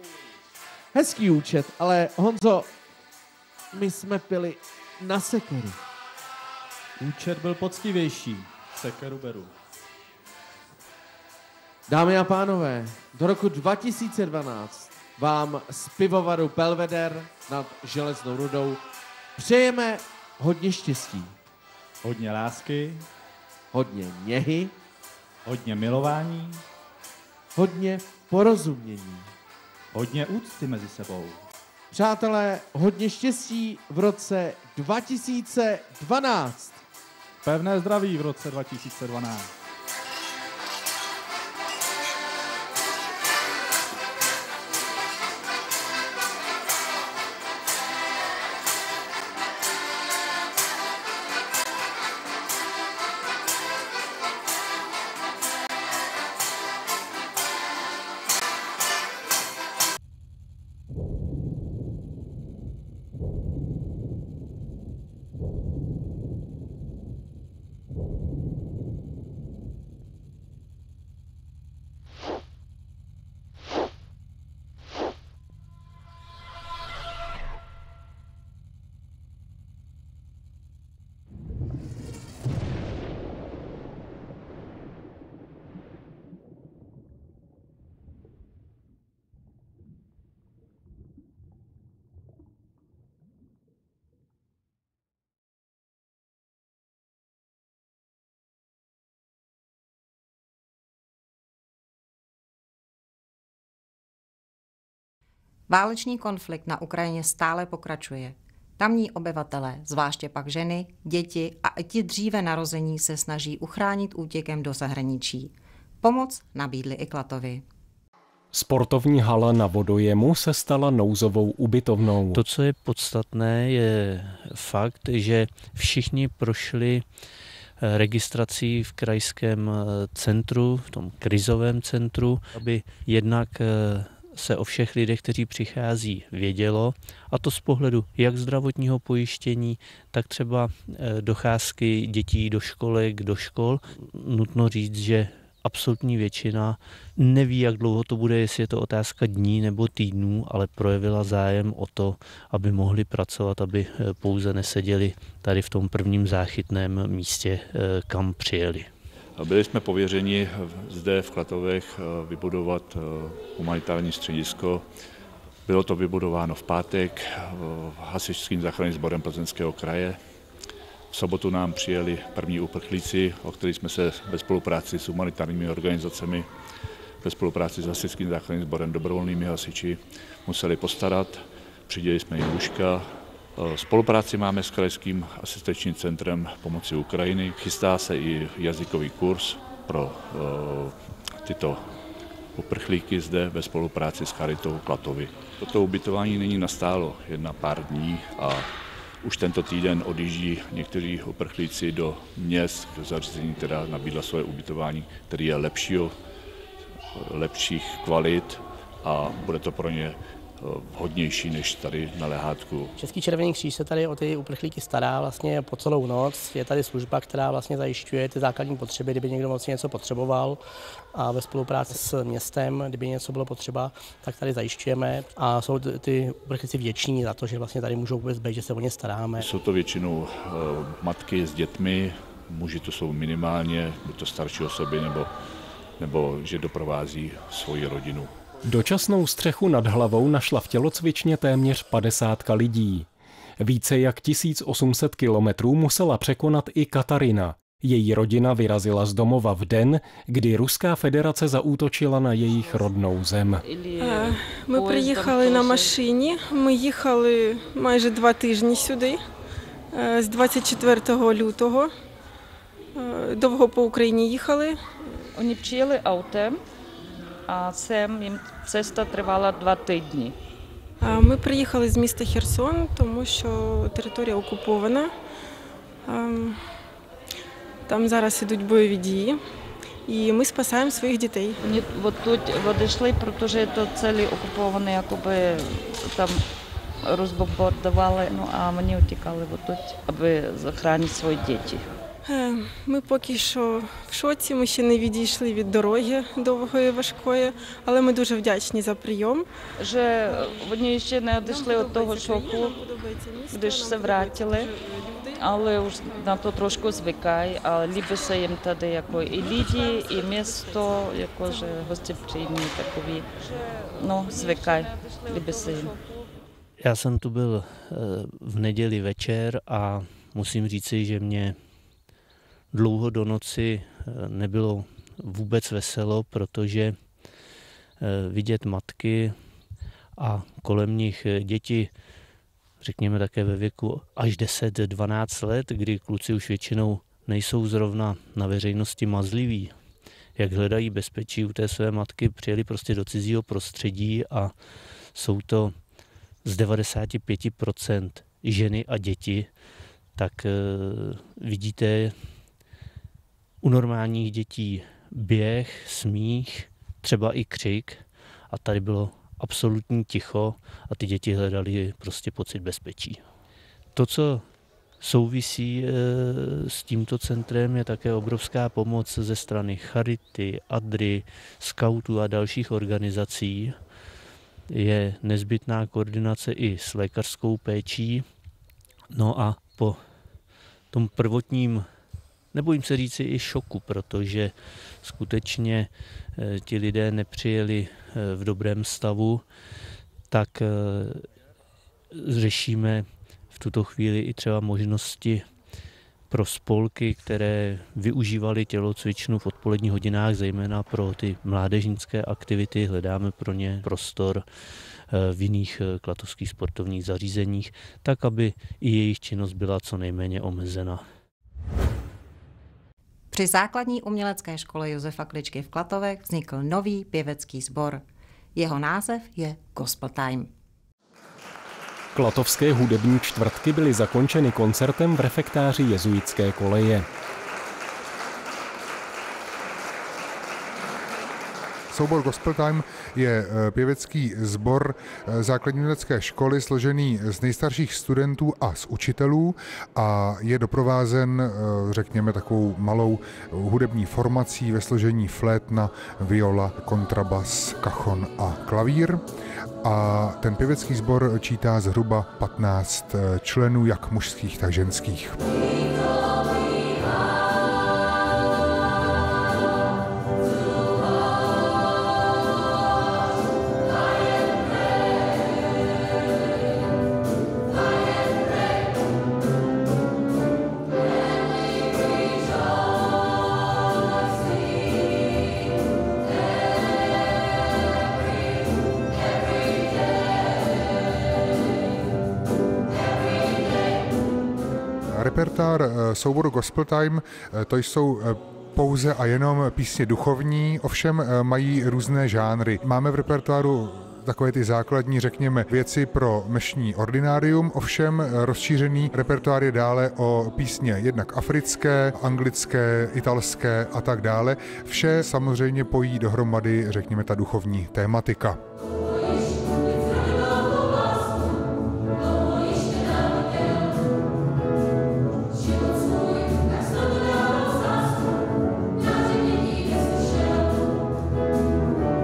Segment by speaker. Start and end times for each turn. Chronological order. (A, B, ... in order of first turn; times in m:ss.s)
0:00.9-0:02.7 A
0:03.7-0:05.8 A
0:07.0-0:09.5 B
0:11.9-0:18.8 A
0:19.4-0:21.3 A
0:22.0-0:23.0 B
0:23.7-0:24.7 A
0:25.4-0:26.6 B
0:27.5-0:29.3 A
0:29.9-0:31.4 B
0:31.9-0:36.8 A
0:37.4-0:39.5 B
1:45.7-1:57.6 C
1:58.5-2:02.4 D
2:02.3-2:07.0 E
2:07.8-2:38.9 E
2:39.4-2:44.8 F
2:45.6-2:50.2 F
2:51.1-2:56.5 F
2:57.2-3:11.9 F
3:12.5-3:18.7 F
3:19.2-3:26.1 F
3:27.2-3:32.9 F
3:33.0-3:40.6 G
3:41.1-3:49.5 G
3:49.4-3:55.3 F
3:56.0-3:58.3 F
3:58.6-4:03.1 D
4:03.6-4:13.6 D
4:12.6-4:12.9 H
4:13.6-4:16.0 H
4:14.0-4:19.2 I
4:19.9-4:21.9 I
4:23.0-4:24.8 I
4:25.3-4:26.6 H
4:27.5-4:30.4 H
4:31.0-4:35.1 I
4:36.1-4:36.6 I
4:37.9-4:39.4 I
4:40.1-4:41.5 I
4:41.6-4:46.4 H
4:47.0-4:51.9 H
4:52.3-4:59.4 I
4:59.8-5:02.8 H
5:01.5-5:05.3 I
5:03.5-5:04.7 H
5:05.4-5:16.0 H
5:16.8-5:21.6 E
5:22.7-5:27.0 E
5:28.0-5:29.4 E
5:30.2-5:31.9 E
5:32.8-5:39.7 E
5:40.4-5:44.5 E
5:45.1-5:45.8 E
5:46.4-5:49.5 E
5:50.2-5:52.2 E
5:53.6-6:03.2 E
6:03.9-6:04.4 E
6:05.0-6:13.8 E
6:14.7-6:18.2 E
6:19.1-6:20.0 E
6:20.9-6:21.9 E
6:22.5-6:29.4 E
6:30.3-6:31.3 E
6:32.1-6:35.4 E
6:36.3-6:44.5 E
6:45.1-6:51.0 E
6:53.3-6:58.0 C
6:58.5-7:00.5 C
7:02.1-7:07.0 D
7:11.9-7:29.2 J
7:29.8-7:35.4 J
8:05.1-8:28.6 J